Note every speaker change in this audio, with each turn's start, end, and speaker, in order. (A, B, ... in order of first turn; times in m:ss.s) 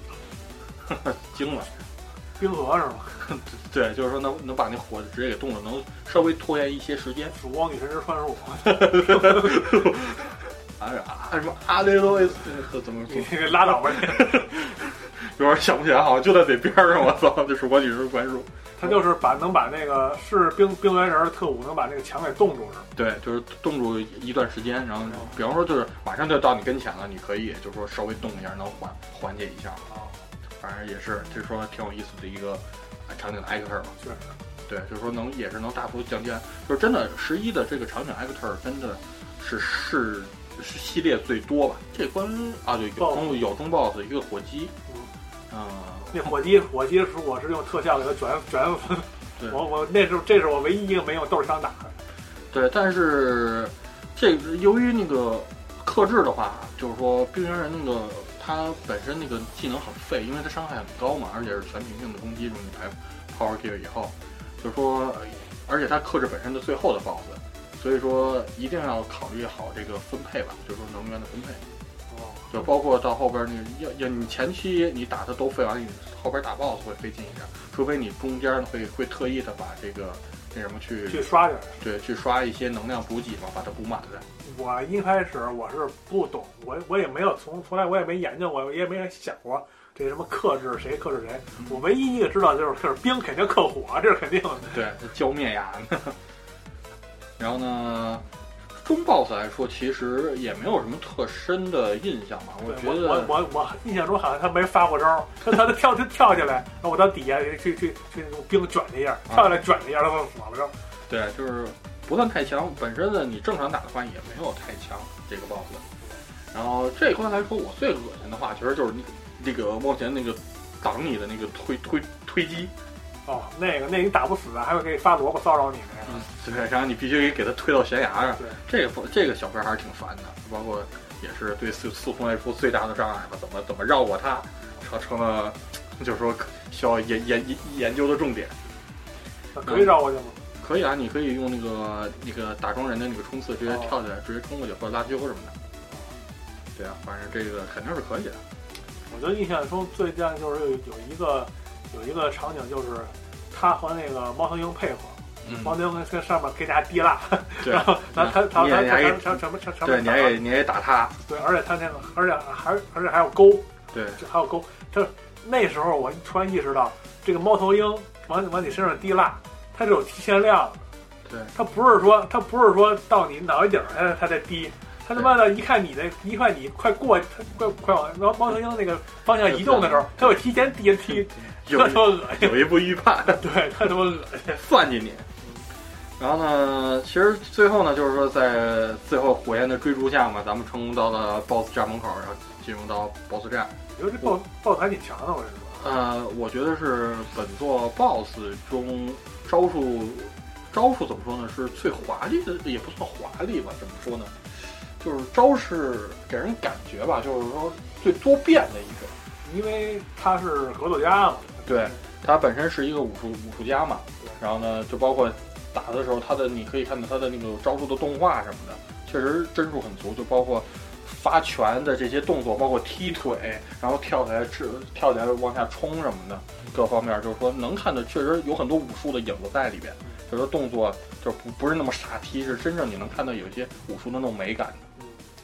0:00.8-0:01.7 A
0:02.4-0:03.3 B
0:03.2-0:07.3 A
0:07.3-0:09.9 B
0:08.6-0:19.0 A
0:13.0-0:14.5 B
0:18.8-0:22.9 B
0:22.9-0:29.8 A
0:25.1-0:25.3 B
0:29.9-0:30.2 B
0:30.6-0:34.0 A
0:34.0-0:34.3 B
0:34.7-0:44.7 A
0:43.0-0:43.4 B
0:45.5-0:46.3 A
0:46.1-0:52.0 B
0:52.5-1:11.6 A
1:12.1-1:12.6 B
1:12.5-1:24.2 A
1:21.1-1:21.8 B
1:24.4-1:34.8 B
1:34.7-1:36.2 A
1:37.4-1:38.2 A
1:38.8-1:43.3 A
1:42.6-1:50.7 B
1:51.1-1:55.8 A
1:56.5-2:02.7 A
2:03.2-2:06.2 B
2:06.1-2:18.5 A
2:19.5-2:20.4 B
2:19.6-2:20.0 A
2:20.6-2:25.5 A
2:23.7-2:24.0 B
2:26.8-2:28.4 A
2:29.1-2:40.4 B
2:35.4-2:35.8 A
2:37.6-2:41.2 A
2:41.2-2:50.8 B
2:43.9-2:44.2 A
2:51.2-2:51.5 A
2:51.5-3:02.7 B
2:59.4-3:00.3 A
3:01.6-3:03.5 A
3:03.2-3:04.6 B
3:04.5-3:05.3 A
3:06.2-3:14.3 A
3:13.9-3:15.8 B
3:15.8-3:29.1 A
3:29.4-3:32.0 B
3:31.6-3:54.8 A
3:55.0-3:55.3 B